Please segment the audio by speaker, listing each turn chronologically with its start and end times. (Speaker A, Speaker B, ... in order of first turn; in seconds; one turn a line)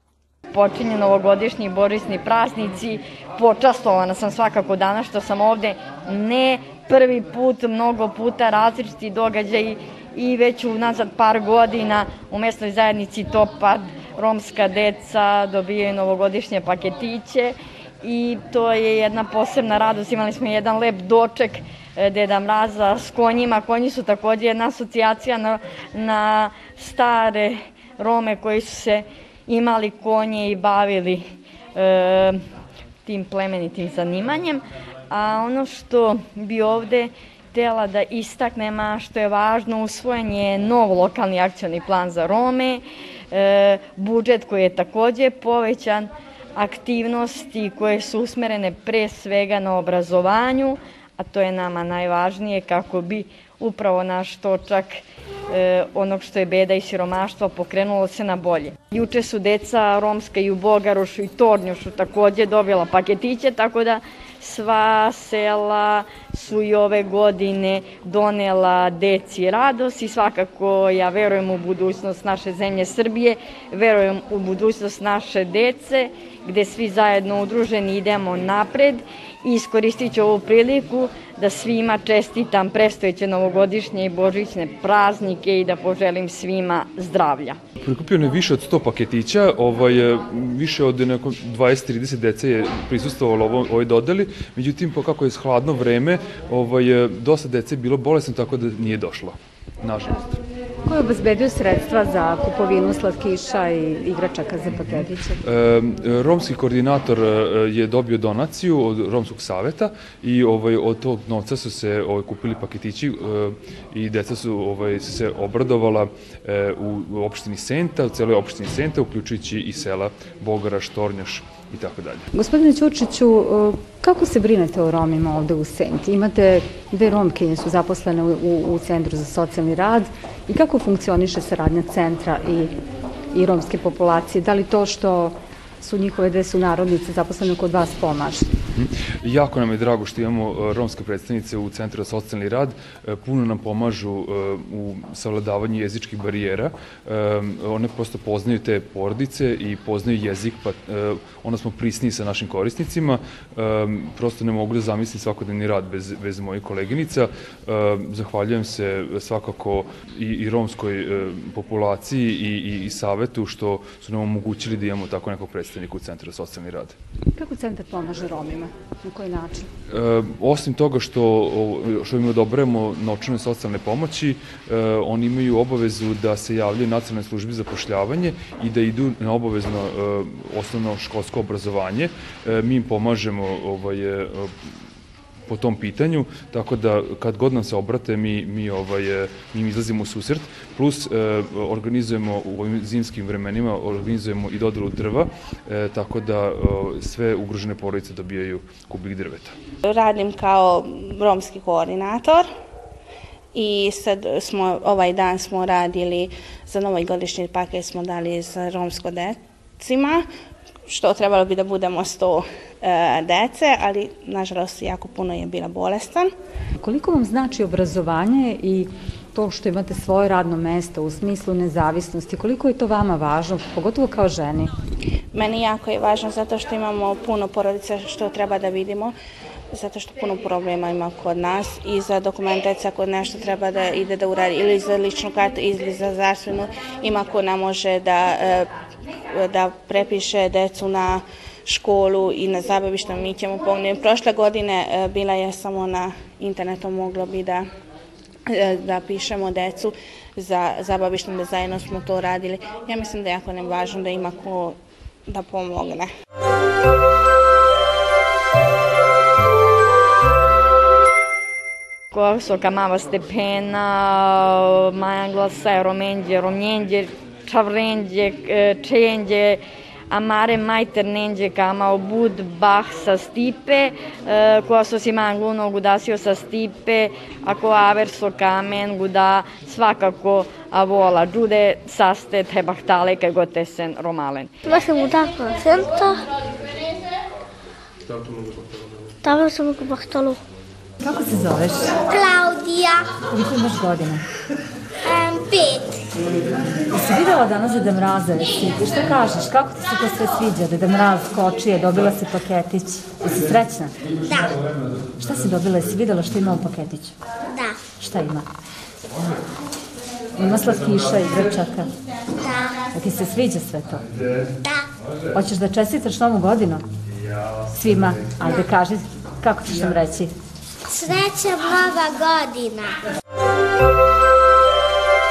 Speaker A: 0.5-32.4
Speaker A: 33.1-87.6
Speaker B: 87.8-100.3
Speaker C: 100.9-105.4
Speaker B: 105.4-122.3
Speaker C: 122.3-132.8
Speaker C: 133.3-138.5
Speaker B: 138.8-167.0
Speaker C: 167.4-169.7
Speaker B: 169.9-184.5
Speaker B: 185.5-199.6
Speaker D: 199.8-202.5
Speaker D: 203.5-210.3
Speaker D: 210.9-216.3
Speaker C: 216.8-224.7
Speaker D: 225.3-229.2
Speaker D: 229.7-238.7
Speaker D: 239.3-247.7
Speaker D: 248.5-256.1
Speaker A: 262.1-284.5
Speaker E: 284.7-286.2
Speaker E: 289.2-290.4
Speaker C: 291.0-292.0
Speaker E: 292.1-293.1
Speaker C: 293.2-294.2
Speaker E: 295.1-296.0
Speaker C: 296.9-303.9
Speaker C: 305.2-307.2
Speaker C: 308.0-308.5
Speaker C: 310.4-311.9
Speaker C: 312.9-314.1
Speaker C: 315.3-316.9
Speaker C: 317.7-320.3
Speaker E: 320.9-322.9